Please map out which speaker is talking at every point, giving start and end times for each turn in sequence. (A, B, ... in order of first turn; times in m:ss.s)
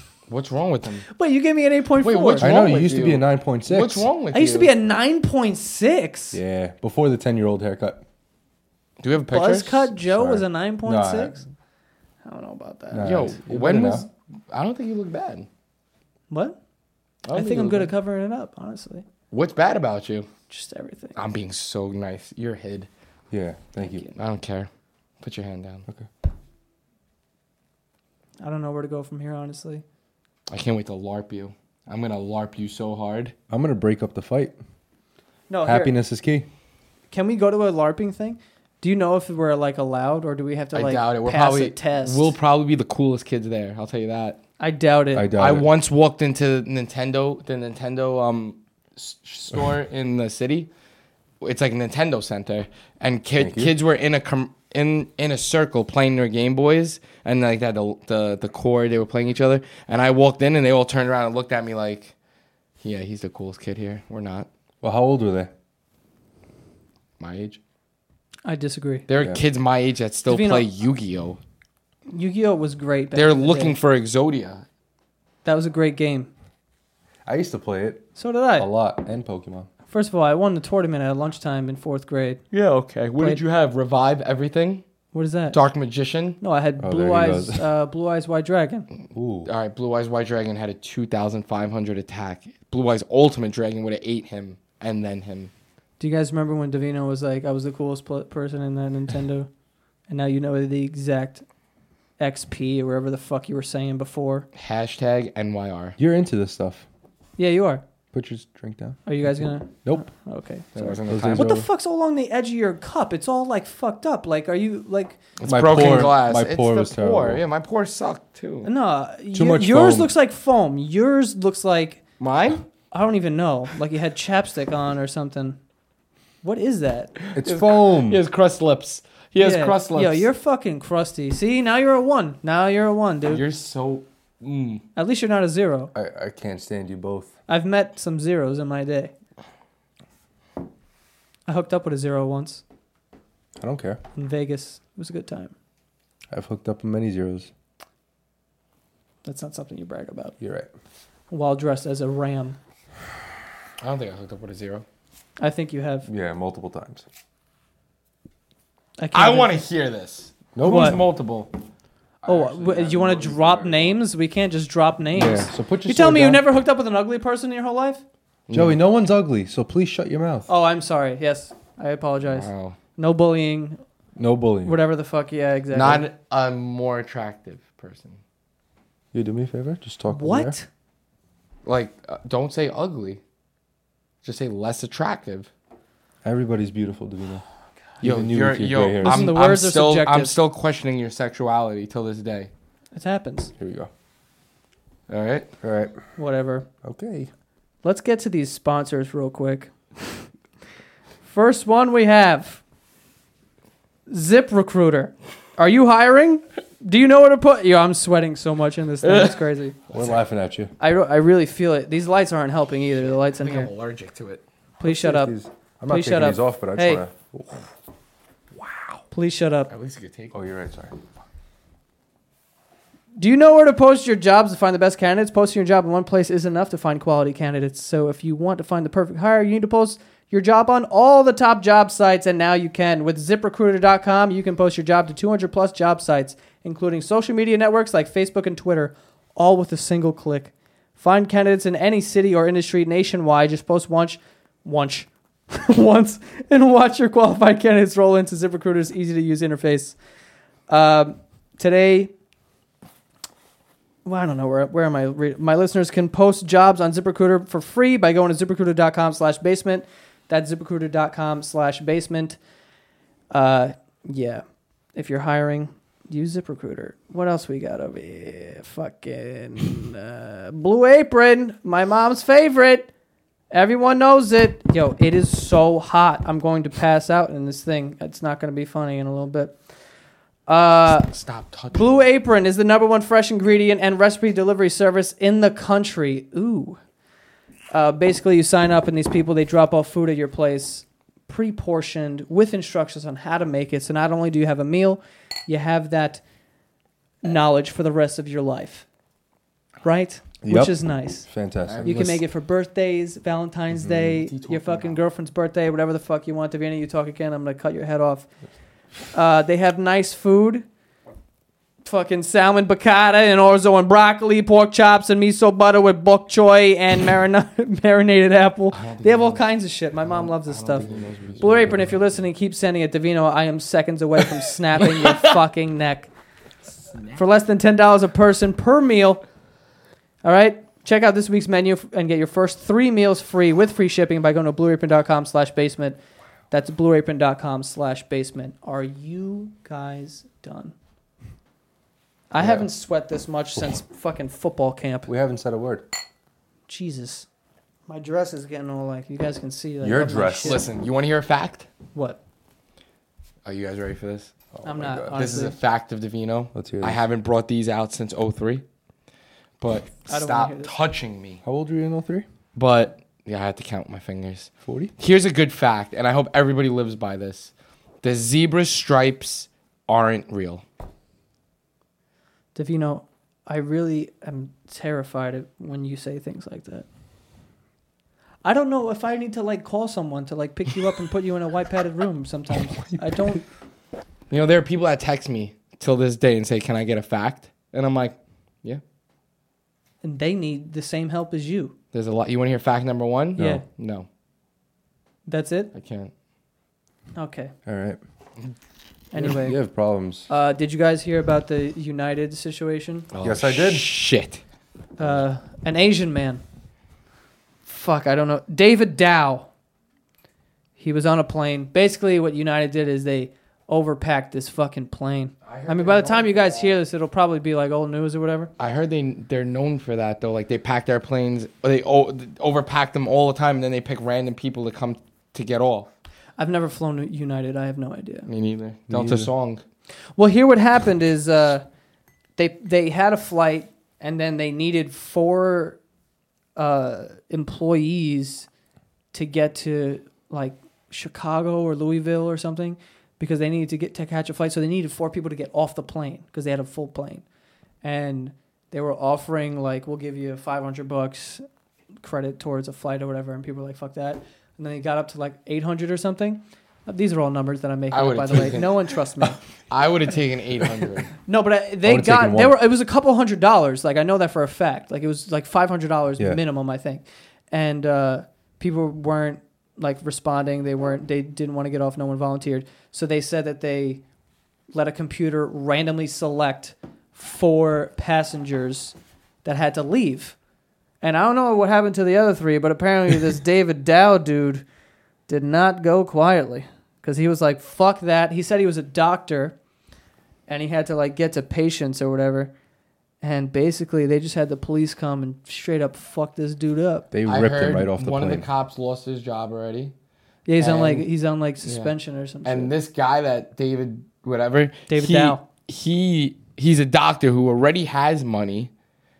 0:00.3-0:01.1 A
0:01.1-0:02.5 B
0:02.0-0:04.7 A
0:02.4-0:04.1 C
0:04.3-0:06.4 B
0:06.3-0:08.0 C
0:09.0-0:09.9 A
0:09.3-0:11.4 B
0:10.0-0:11.4 C
0:12.2-0:13.2 B
0:12.9-0:14.1 C
0:13.0-0:15.5 A
0:16.3-0:16.6 B
0:17.3-0:17.9 A
0:17.3-0:19.0 B
0:19.3-0:20.3 A
0:20.5-0:21.2 B
0:21.2-0:22.9 A
0:23.3-0:24.1 C
0:23.8-0:24.1 B
0:24.2-0:24.7 A
0:25.2-0:25.9 A
0:28.4-0:29.8 B
0:30.5-0:33.3 A
0:33.5-0:34.6 C
0:35.5-0:35.9 B
0:35.6-0:36.5 C
0:37.1-0:42.3 B
0:40.7-0:44.4 A
0:44.6-0:45.3 B
0:45.1-0:45.7 C
0:45.3-0:50.7 A
0:51.4-1:02.1 A
0:53.4-0:53.7 C
1:02.8-1:04.5 A
1:04.8-1:05.5 C
1:07.2-1:07.6 A
1:08.4-1:09.0 B
1:09.1-1:11.4 A
1:10.3-1:10.7 B
1:12.1-1:13.8 B
1:13.1-1:14.6 A
1:15.4-1:16.3 B
1:17.3-1:19.7 C
1:18.2-1:18.7 B
1:19.9-1:22.4 B
1:22.5-1:24.8 A
1:25.1-1:25.6 B
1:25.5-1:26.4 A
1:26.4-1:28.9 B
1:26.8-1:27.7 C
1:29.1-1:29.5 C
1:29.4-1:35.5 A
1:36.0-1:39.5 B
1:40.1-1:41.4 B
1:42.2-1:44.5 B
1:44.5-1:46.0 A
1:46.0-1:46.8 C
1:47.4-1:47.8 B
1:48.1-1:50.0 C
1:49.1-1:55.2 B
1:50.8-1:51.5 A
1:51.1-1:51.7 C
1:55.4-1:58.7 A
1:55.5-1:57.4 C
1:58.6-2:02.0 B
1:59.3-2:00.1 C
2:02.2-2:02.6 A
2:02.9-2:05.6 B
2:06.4-2:07.1 B
2:07.2-2:10.3 A
2:07.3-2:08.2 C
2:09.4-2:13.4 B
2:13.3-2:14.8 A
2:15.0-2:15.9 B
2:15.9-2:17.3 C
2:17.5-2:19.1 B
2:21.5-2:22.6 B
2:23.6-2:24.0 C
2:24.2-2:25.5 B
2:26.3-2:27.5 C
2:29.2-2:30.4 B
2:30.4-2:30.7 C
2:31.3-2:32.6 B
2:33.8-2:34.8 A
2:35.4-2:36.1 B
2:36.1-2:37.0 C
2:39.0-2:39.6 B
2:39.1-2:41.5 A
2:40.6-2:41.1 C
2:40.6-2:41.0 B
2:42.2-2:44.0 A
2:42.2-2:48.0 B
2:45.2-2:46.4 C
2:48.5-2:48.8 A
2:48.5-2:50.5 C
2:50.5-2:53.8 B
2:52.3-2:52.8 A
2:54.2-2:54.8 C
2:54.6-2:56.1 B
2:55.7-2:58.2 A
2:59.1-3:00.6 C
3:00.1-3:00.7 B
3:01.6-3:03.2 A
3:04.2-3:05.5 A
3:06.2-3:07.4 C
3:08.0-3:09.4 C
3:08.0-3:12.5 A
3:09.0-3:10.4 B
3:12.9-3:13.5 B
3:13.6-3:13.9 C
3:15.1-3:15.5 A
3:15.6-3:16.0 C
3:16.2-3:16.7 B
3:16.8-3:17.3 C
3:17.8-3:20.3 B
3:21.2-3:22.6 B
3:24.1-3:29.8 B
3:29.0-3:29.4 A
3:29.9-3:30.7 C
3:30.8-3:33.7 B
3:33.3-3:34.4 A
3:34.8-3:35.3 B
3:34.8-3:37.6 C
3:35.9-3:37.0 B
3:38.6-3:39.0 A
3:39.1-3:39.7 B
3:39.7-3:40.4 A
3:40.3-3:41.0 C
3:43.2-4:10.0 B
4:10.7-4:12.1 B
4:14.0-4:22.4 B
4:23.3-4:24.4 B
4:25.0-4:32.9 B
4:33.5-4:39.6 B
4:40.5-4:41.1 B
4:41.0-4:42.0 A
4:41.7-4:46.8 B
4:47.7-4:56.2 B
4:57.2-4:58.9 B
4:59.8-5:01.3 B
5:00.4-5:02.2 C
5:01.7-5:02.2 A
5:01.8-5:08.3 B
5:03.7-5:04.2 C
5:04.2-5:05.0 A
5:09.1-5:10.6 B
5:11.8-5:20.9 B
5:18.7-5:19.4 A
5:20.1-5:21.8 A
5:21.4-5:26.1 B
5:24.8-5:25.3 A
5:27.2-5:29.2 B
5:30.2-5:36.0 B
5:36.5-5:40.8 B
5:42.3-5:45.1 B
5:42.4-5:42.7 C
5:45.1-5:45.9 C
5:46.7-5:47.3 B
5:47.9-5:50.6 B
5:49.8-5:50.6 C
5:50.4-5:51.7 A
5:51.9-5:52.2 B
5:53.4-5:54.3 A
5:54.5-5:55.2 C
5:54.6-5:55.6 B
5:55.1-5:58.6 A
5:56.5-5:57.0 C
5:59.6-6:01.4 A
6:00.1-6:00.7 B
6:01.4-6:02.3 C
6:02.6-6:10.6 A
6:04.7-6:04.9 C
6:12.6-6:16.9 B
6:18.4-6:23.4 B
6:22.7-6:23.3 C
6:24.3-6:28.8 A
6:30.0-6:31.7 B
6:31.9-6:34.1 A
6:33.4-6:33.6 C
6:33.4-6:33.6 B
6:35.3-6:35.7 B
6:35.7-6:36.1 A
6:37.2-6:37.5 B
6:37.7-6:38.0 C
6:39.1-6:39.6 B
6:39.2-6:40.3 C
6:40.3-6:43.1 B
6:43.1-6:44.4 A
6:43.2-6:43.9 C
6:45.0-6:46.4 B
6:47.7-6:49.5 B
6:50.8-6:58.5 B
6:55.4-6:56.8 A
6:58.6-7:05.9 A
7:06.4-7:08.3 B
7:08.3-7:09.6 A
7:08.9-7:09.3 C
7:10.2-7:11.6 B
7:12.4-7:15.8 B
7:16.6-7:18.5 B
7:19.1-7:27.2 B
7:27.8-7:31.4 B
7:32.0-7:39.4 B
7:37.9-7:38.9 A
7:39.7-7:41.1 A
7:41.3-7:54.0 B
7:41.8-7:42.6 C
7:54.7-8:00.4 B
8:01.0-8:04.6 B
8:05.3-8:09.6 B
8:10.5-8:12.5 B
8:13.2-8:17.1 B
8:17.1-8:18.5 C
8:17.3-8:19.9 A
8:20.5-8:22.7 B
8:20.6-8:21.1 A
8:21.6-8:28.7 A
8:24.9-8:25.4 B